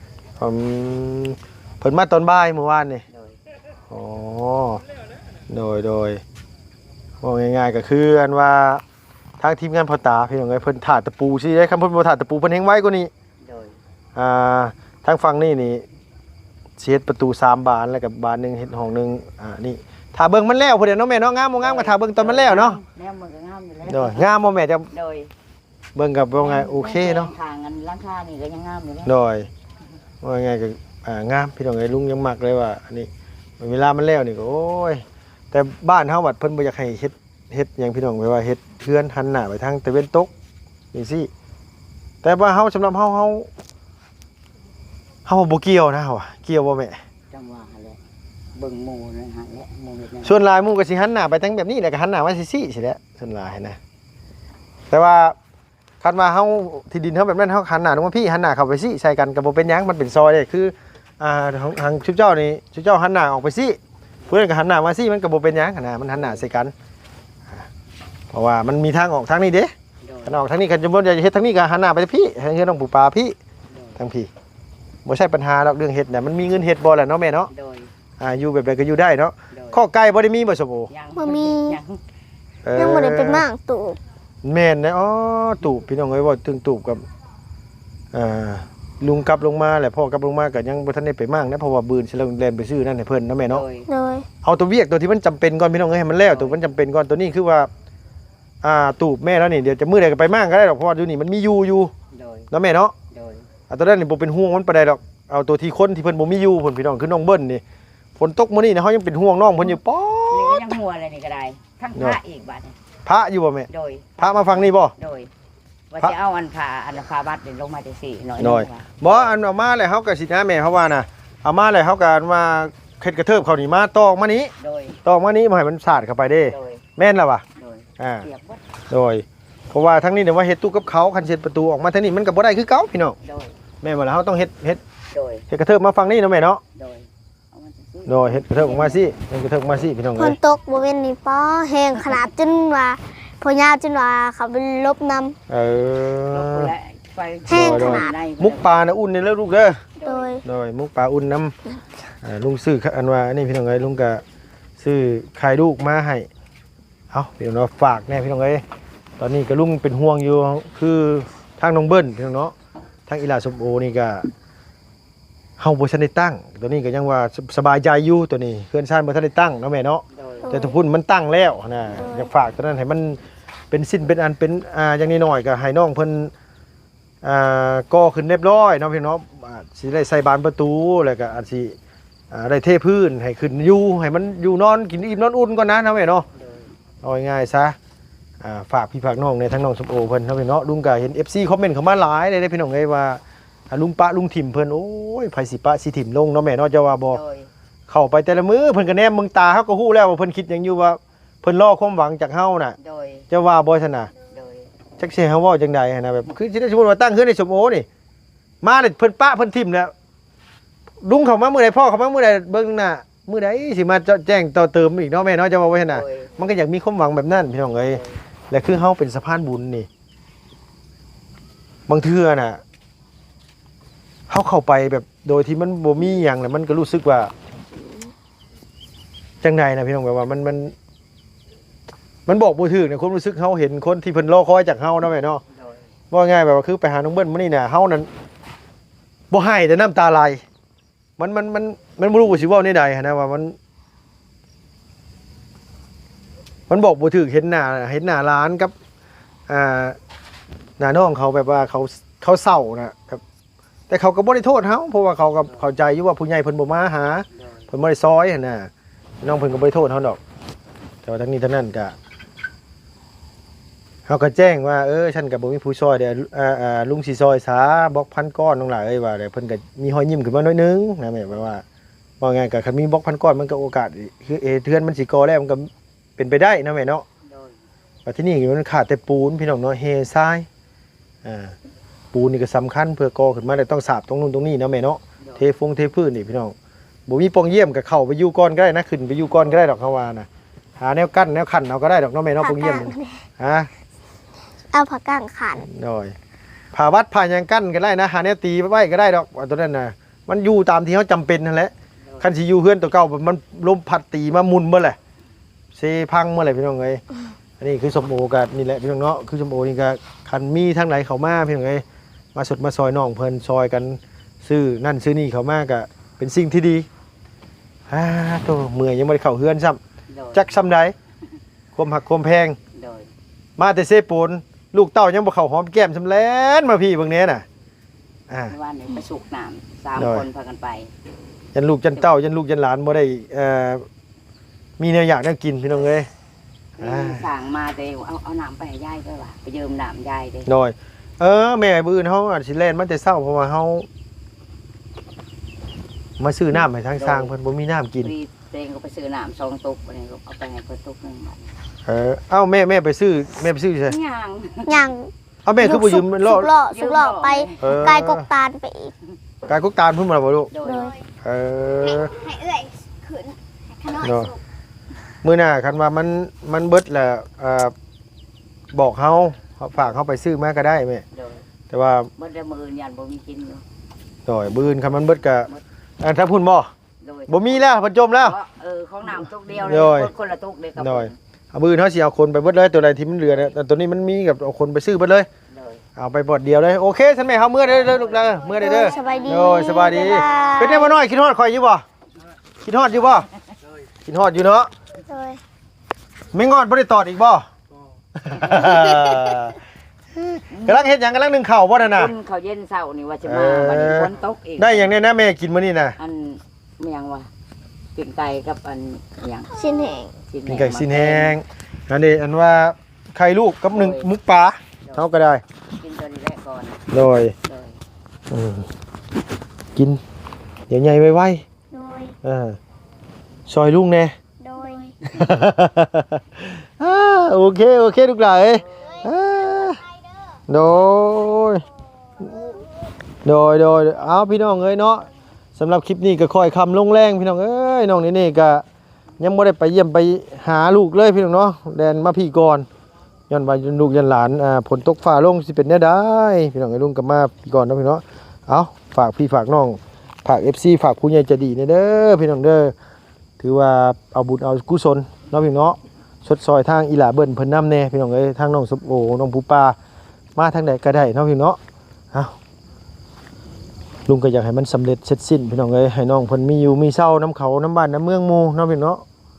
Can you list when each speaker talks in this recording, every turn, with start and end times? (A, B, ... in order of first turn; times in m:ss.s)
0:00.4-0:03.0 A
0:03.1-0:03.4 B
0:03.9-0:04.8 A
0:05.5-0:06.2 A
0:07.2-0:08.8 A
0:09.4-0:13.1 A
0:13.4-0:13.8 B
0:14.2-0:15.8 A
0:16.8-0:22.8 A
0:21.6-0:24.3 B
0:23.8-0:24.9 A
0:24.9-0:25.3 B
0:25.9-0:27.3 A
0:26.4-0:29.1 B
0:29.0-0:29.5 A
0:30.2-0:33.1 A
0:33.6-0:40.3 A
0:40.9-0:41.3 A
0:42.2-0:43.5 A
0:45.2-0:47.0 A
0:47.3-0:48.0 B
0:48.6-0:50.3 B
0:50.2-0:53.8 A
0:54.9-0:55.4 A
0:56.0-1:03.8 A
1:04.3-1:06.7 A
1:08.3-1:09.7 A
1:10.0-1:10.4 B
1:10.2-1:13.4 A
1:13.7-1:14.0 B
1:14.0-1:14.3 A
1:15.0-1:17.5 A
1:17.5-1:17.9 B
1:18.2-1:20.9 A
1:19.5-1:19.8 B
1:20.9-1:22.0 B
1:21.2-1:21.8 C
1:22.6-1:23.4 A
1:22.8-1:24.0 C
1:24.4-1:27.0 A
1:28.1-1:33.6 A
1:33.5-1:33.9 B
1:33.9-1:34.3 C
1:34.4-1:37.7 A
1:36.3-1:36.6 B
1:38.6-1:41.9 A
1:42.1-1:42.5 B
1:42.5-1:42.9 A
1:43.1-1:43.4 B
1:43.7-1:47.6 A
1:48.2-1:50.7 A
1:50.3-1:52.7 B
1:53.0-1:54.9 A
1:53.7-1:54.2 B
1:55.0-1:55.3 B
1:55.9-1:59.3 B
1:58.4-2:04.5 A
2:04.6-2:05.0 B
2:05.0-2:07.4 A
2:06.5-2:06.8 B
2:07.6-2:08.6 B
2:08.0-2:08.3 A
2:08.9-2:13.2 A
2:13.2-2:13.5 B
2:13.8-2:14.8 A
2:15.1-2:15.4 B
2:15.5-2:16.6 A
2:16.7-2:19.1 B
2:18.0-2:20.4 A
2:20.2-2:25.4 C
2:25.5-2:26.7 A
2:26.3-2:28.8 B
2:27.5-2:28.1 C
2:27.5-2:29.8 A
2:30.0-2:30.4 B
2:30.0-2:30.4 C
2:30.4-2:31.5 A
2:32.2-2:34.2 A
2:34.8-2:36.3 A
2:37.1-2:38.6 A
2:39.2-2:42.5 A
2:43.1-2:44.3 A
2:45.6-2:56.3 A
2:50.1-2:50.5 B
2:50.4-2:50.8 C
2:52.0-2:52.3 C
2:57.2-3:01.8 A
3:02.3-3:06.2 A
3:06.4-3:06.7 B
3:07.0-3:07.8 A
3:08.4-3:17.2 A
3:17.1-3:17.5 B
3:17.9-3:22.8 A
3:22.8-3:23.3 B
3:23.3-3:24.1 A
3:24.3-3:24.7 B
3:25.0-3:27.9 A
3:28.6-3:29.9 A
3:31.0-3:39.9 A
3:35.9-3:36.3 B
3:37.9-3:38.2 B
3:41.9-3:42.6 A
3:44.3-3:47.3 A
3:49.4-3:50.7 A
3:52.2-3:55.4 A
3:55.5-3:55.8 B
3:56.1-3:58.1 A
3:59.3-4:00.4 A
4:01.2-4:03.6 A
4:06.7-4:08.7 A
4:09.5-4:10.0 A
4:10.8-4:13.2 A
4:13.9-4:18.7 A
4:19.2-4:20.2 A
4:21.0-4:21.9 A
4:24.1-4:31.6 A
4:32.2-4:37.0 A
4:37.2-4:37.6 B
4:38.0-4:40.5 A
4:41.2-4:41.5 A
4:42.1-4:46.5 A
4:47.1-4:50.3 A
4:50.8-4:53.7 A
4:52.4-4:53.2 C
4:54.7-4:55.7 C
4:55.6-4:56.1 A
4:56.7-5:05.0 A
5:05.7-5:07.0 A
5:07.6-5:11.8 A
5:12.3-5:16.9 A
5:17.9-5:19.8 A
5:20.1-5:20.5 B
5:20.3-5:20.9 A
5:21.7-5:22.6 A
5:22.7-5:23.1 B
5:23.6-5:27.4 A
5:28.3-5:28.5 A
5:28.5-5:30.9 B
5:30.0-5:30.2 A
5:31.5-5:33.8 A
5:34.8-5:36.1 A
5:36.8-5:40.5 B
5:36.8-5:37.2 A
5:40.4-5:43.9 A
5:46.2-5:48.1 A
5:47.0-5:47.3 B
5:48.0-5:51.5 B
5:51.8-5:54.0 A
5:53.8-5:54.8 B
5:54.7-5:58.9 C
5:55.4-5:56.5 A
5:56.6-5:57.6 B
5:57.6-5:58.3 A
5:59.4-6:00.5 A
6:00.5-6:00.9 B
6:00.6-6:01.0 C
6:01.2-6:02.1 A
6:02.0-6:04.4 D
6:04.0-6:04.3 A
6:05.2-6:07.7 A
6:08.7-6:11.0 A
6:11.1-6:11.4 B
6:11.7-6:12.1 A
6:12.2-6:13.6 B
6:14.2-6:16.7 A
6:17.0-6:17.6 B
6:17.3-6:18.4 A
6:18.2-6:21.1 B
6:19.5-6:20.1 A
6:20.8-6:25.3 A
6:25.5-6:25.8 B
6:26.0-6:31.8 A
6:27.6-6:29.4 B
6:28.6-6:31.0 C
6:32.6-6:33.2 A
6:34.0-6:34.7 A
6:35.1-6:35.4 C
6:36.3-6:37.5 A
6:38.2-6:39.6 A
6:38.4-6:39.4 B
6:40.1-6:42.1 A
6:40.5-6:40.8 B
6:41.8-6:44.9 B
6:43.2-6:46.0 A
6:46.0-6:47.3 B
6:47.9-6:49.5 B
6:49.5-6:50.1 C
6:50.3-6:51.4 B
6:50.5-6:55.4 A
6:53.7-6:54.1 B
6:55.8-6:56.8 B
6:56.9-6:57.3 A
6:57.4-6:57.8 B
6:58.3-6:58.7 A
6:59.8-7:00.0 A
7:00.7-7:01.4 A
7:01.7-7:02.1 C
7:02.2-7:02.6 A
7:03.5-7:04.1 A
7:04.4-7:04.9 C
7:04.5-7:04.9 D
7:05.0-7:09.8 A
7:08.8-7:09.8 D
7:10.5-7:11.6 A
7:13.2-7:18.6 A
7:19.2-7:22.7 A
7:23.3-7:32.7 A
7:33.4-7:39.8 A
7:40.4-7:41.6 A
7:44.1-7:49.0 A